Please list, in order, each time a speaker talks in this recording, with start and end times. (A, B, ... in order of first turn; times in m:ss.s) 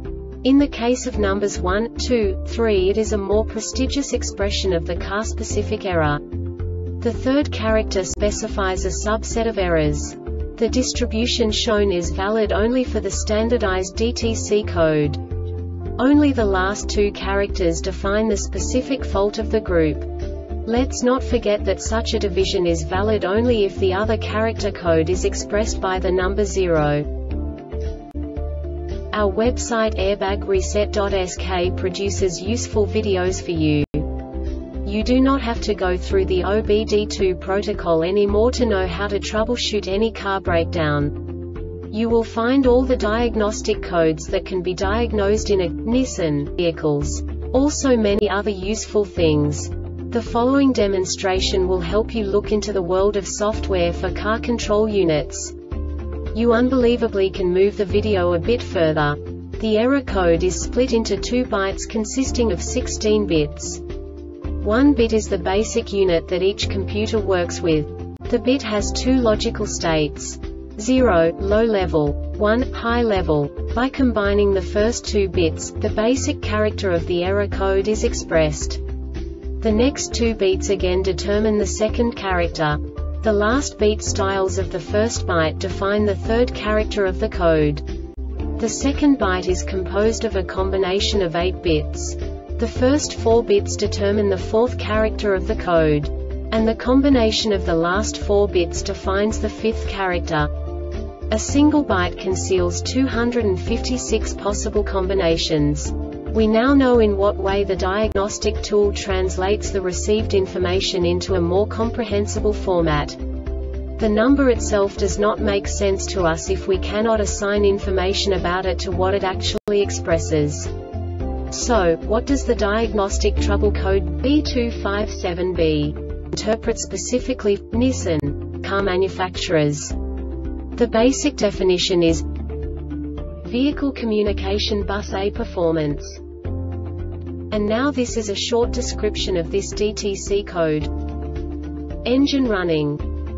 0:00.4-0:06.4 A
0:07.0-0:15.2 A
0:15.9-0:27.1 A
0:29.1-0:34.2 A
0:34.8-0:55.6 A
0:56.3-1:03.8 A
1:04.6-1:18.8 A
1:19.6-1:27.9 A
1:28.6-1:40.5 A
1:41.3-1:53.2 A
1:54.0-2:00.8 A
2:01.5-2:10.0 A
2:10.7-2:12.3 A
2:13.4-2:16.2 A
2:17.5-2:20.9 A
2:22.0-2:23.1 A